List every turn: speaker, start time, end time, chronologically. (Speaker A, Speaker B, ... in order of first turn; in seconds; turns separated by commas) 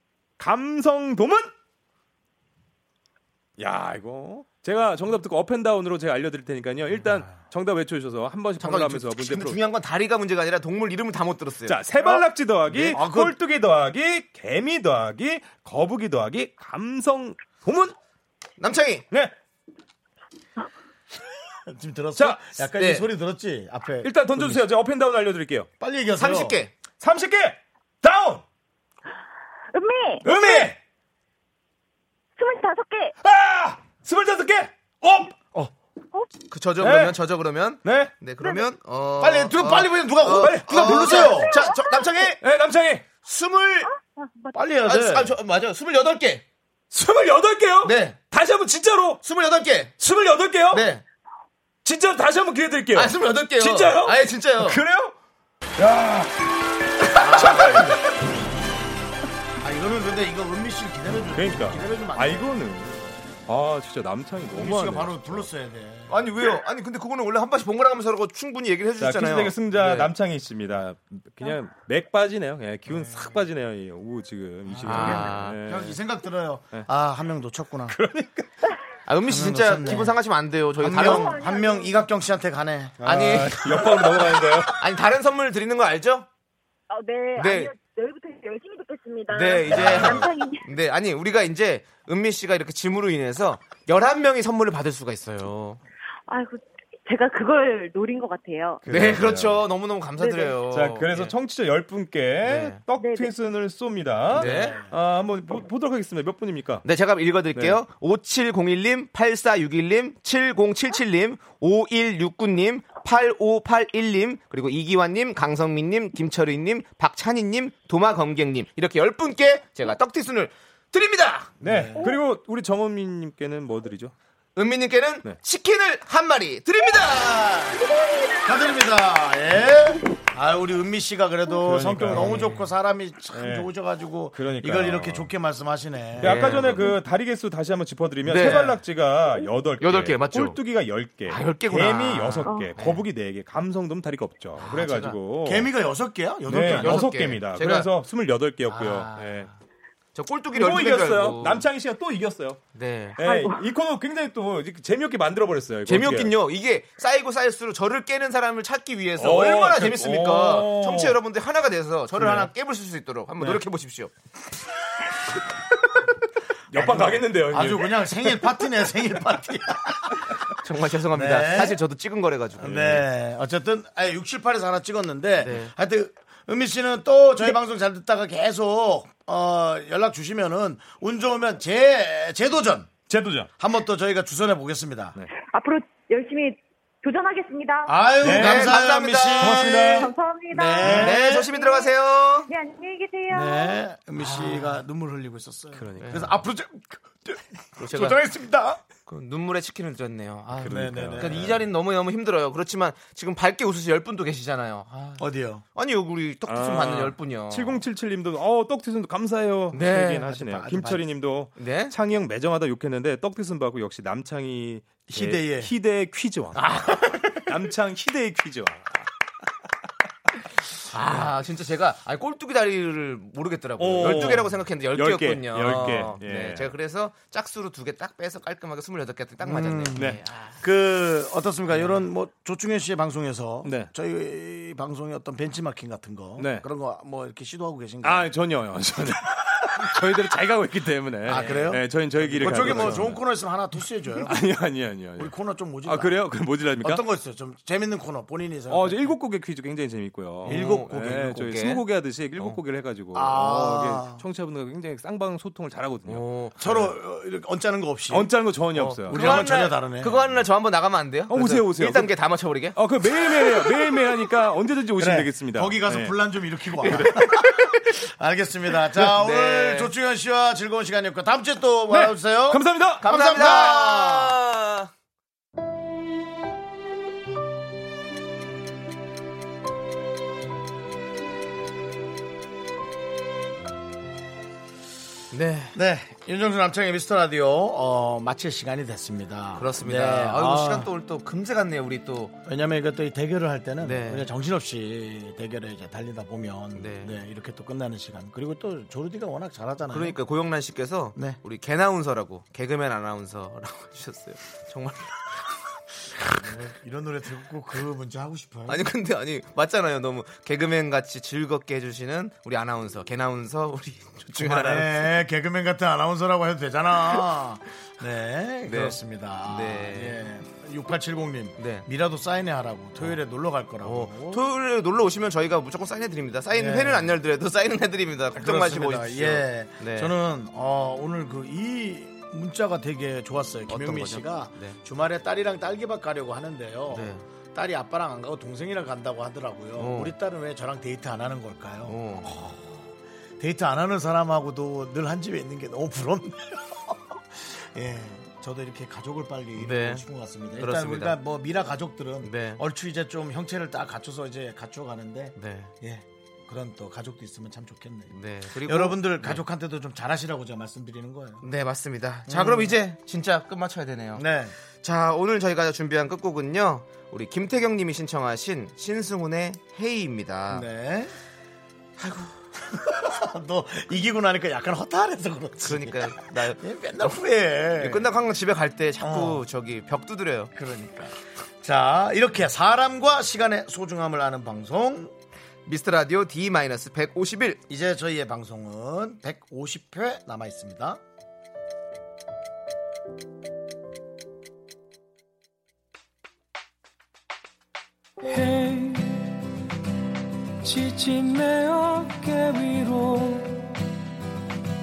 Speaker A: 0.4-1.5, Speaker A: 3.6-9.6, Speaker B: 8.6-12.2, Speaker A: 11.7-17.9, Speaker C: 12.7-13.3, Speaker B: 18.6-19.1, Speaker C: 21.7-24.6, Speaker A: 22.1-22.5, Speaker B: 22.8-23.1, Speaker A: 24.0-25.7, Speaker C: 25.8-26.6, Speaker B: 26.2-26.7, Speaker A: 27.0-28.4, Speaker D: 29.7-30.7, Speaker A: 30.2-30.8, Speaker D: 32.4-33.1, Speaker A: 33.2-35.6, Speaker B: 36.5-42.4, Speaker A: 36.8-37.2, Speaker A: 37.8-38.1, Speaker C: 39.2-41.5, Speaker A: 39.6-41.5, Speaker D: 41.1-42.1, Speaker A: 42.4-43.0, Speaker B: 43.2-43.9, Speaker D: 44.1-44.5, Speaker C: 44.5-45.4, Speaker B: 44.8-46.4, Speaker A: 46.9-49.2, Speaker B: 47.8-48.2, Speaker B: 49.2-49.9, Speaker A: 50.0-50.9, Speaker B: 50.7-51.0, Speaker A: 51.8-55.1, Speaker B: 52.9-54.8, Speaker A: 55.8-56.5, Speaker A: 57.0-58.0, Speaker C: 57.1-58.0, Speaker B: 57.2-57.9, Speaker C: 59.6-62.5, Speaker A: 61.3-65.5, Speaker C: 64.5-66.2, Speaker B: 66.1-70.1, Speaker A: 69.0-76.0, Speaker C: 74.7-78.0, Speaker B: 74.8-75.6, Speaker A: 77.9-78.5, Speaker B: 79.0-81.4, Speaker C: 79.2-80.2, Speaker C: 80.8-83.0, Speaker D: 80.9-82.1, Speaker A: 83.0-84.8, Speaker B: 83.0-84.0, Speaker B: 84.7-86.3, Speaker D: 86.9-90.7, Speaker B: 87.3-87.7, Speaker B: 89.3-95.8, Speaker A: 89.7-90.3, Speaker D: 96.3-98.8, Speaker A: 98.8-99.7, Speaker B: 98.9-101.3, Speaker D: 100.2-100.6, Speaker A: 100.7-106.8, Speaker B: 102.4-102.8, Speaker D: 103.0-103.3, Speaker B: 104.3-104.8, Speaker C: 104.4-104.8, Speaker B: 106.8-121.5, Speaker A: 107.5-107.8, Speaker A: 121.6-124.1, Speaker C: 121.6-122.0, Speaker B: 124.5-127.8, Speaker D: 127.7-128.7, Speaker C: 128.4-136.8, Speaker A: 131.6-132.5, Speaker B: 132.1-132.7, Speaker A: 133.3-133.7, Speaker A: 134.3-135.3, Speaker A: 136.2-145.7, Speaker B: 136.2-136.9, Speaker B: 138.2-138.8, Speaker B: 139.8-140.6, Speaker B: 141.3-143.0, Speaker D: 142.4-142.7, Speaker B: 144.6-145.2, Speaker C: 145.4-147.2, Speaker A: 146.4-149.5, Speaker B: 146.5-147.9, Speaker B: 148.6-149.5, Speaker B: 150.1-151.6, Speaker A: 150.5-152.6, Speaker B: 152.7-153.2, Speaker A: 153.2-156.3, Speaker D: 153.2-153.6, Speaker B: 155.8-164.1, Speaker A: 159.2-161.2, Speaker A: 162.2-162.5, Speaker A: 166.7-168.5, Speaker C: 166.7-170.3, Speaker B: 170.6-172.9, Speaker C: 171.1-171.8, Speaker C: 172.6-182.9, Speaker A: 172.7-173.0, Speaker B: 175.4-175.7, Speaker A: 183.1-183.5, Speaker C: 183.6-185.1, Speaker D: 185.4-188.0, Speaker C: 187.8-191.5, Speaker B: 188.2-189.7, Speaker A: 188.2-190.1, Speaker D: 189.9-191.9, Speaker B: 190.8-192.5, Speaker D: 192.5-193.8, Speaker C: 193.3-198.8, Speaker B: 194.2-194.8, Speaker A: 195.7-196.5, Speaker B: 196.0-196.2, Speaker B: 197.8-198.2, Speaker B: 199.1-207.8, Speaker A: 200.5-201.6, Speaker C: 200.6-201.5, Speaker C: 205.2-205.6, Speaker A: 206.4-219.0, Speaker B: 209.7-210.2, Speaker C: 210.2-211.0, Speaker B: 211.5-211.9, Speaker C: 215.1-215.7, Speaker B: 216.6-217.2, Speaker B: 220.9-230.6, Speaker A: 223.8-226.7, Speaker C: 229.4-238.3, Speaker A: 229.9-230.2, Speaker A: 233.6-233.9, Speaker A: 236.4-236.7, Speaker A: 238.0-243.2, Speaker C: 241.2-244.4, Speaker B: 241.3-241.8, Speaker B: 242.4-243.1, Speaker A: 244.2-245.3, Speaker C: 245.2-246.2, Speaker A: 245.8-247.0, Speaker C: 246.8-249.1, Speaker A: 248.7-256.9, Speaker C: 250.4-250.9, Speaker B: 250.4-251.8, Speaker C: 253.1-254.2, Speaker B: 256.1-256.6, Speaker C: 256.6-258.3, Speaker A: 258.1-259.4, Speaker B: 258.8-262.8, Speaker C: 259.1-260.4, Speaker A: 261.3-262.1, Speaker A: 262.7-266.1, Speaker C: 265.0-274.4, Speaker A: 266.8-267.8, Speaker B: 269.0-269.9, Speaker A: 271.9-273.1, Speaker B: 273.0-274.9, Speaker B: 285.3-285.8, Speaker C: 285.7-290.9, Speaker B: 289.6-292.3, Speaker C: 292.4-300.2, Speaker B: 293.8-294.3, Speaker B: 296.8-297.1, Speaker B: 299.9-305.4, Speaker C: 306.3-308.8, Speaker B: 308.7-315.2, Speaker C: 314.3-324.4, Speaker B: 318.6-320.2, Speaker B: 321.6-321.9, Speaker B: 323.8-330.1, Speaker C: 326.5-327.1, Speaker C: 328.4-342.8, Speaker B: 333.7-334.8, Speaker B: 336.9-337.2, Speaker B: 339.8-340.1, Speaker B: 341.9-342.4, Speaker C: 343.4-361.4, Speaker B: 349.6-350.0, Speaker B: 350.6-351.1, Speaker B: 352.2-352.6, Speaker B: 355.4-355.7, Speaker B: 358.1-359.4, Speaker B: 361.4-364.2, Speaker C: 362.3-362.7, Speaker C: 364.1-364.5, Speaker B: 364.8-370.6, Speaker C: 370.5-371.1, Speaker B: 372.0-372.3, Speaker C: 372.6-378.1, Speaker B: 375.6-377.2, Speaker B: 377.8-380.5, Speaker C: 379.0-379.4, Speaker C: 380.5-385.1, Speaker B: 385.6-387.6, Speaker C: 387.7-391.0, Speaker E: 398.2-399.3, Speaker E: 400.6-403.7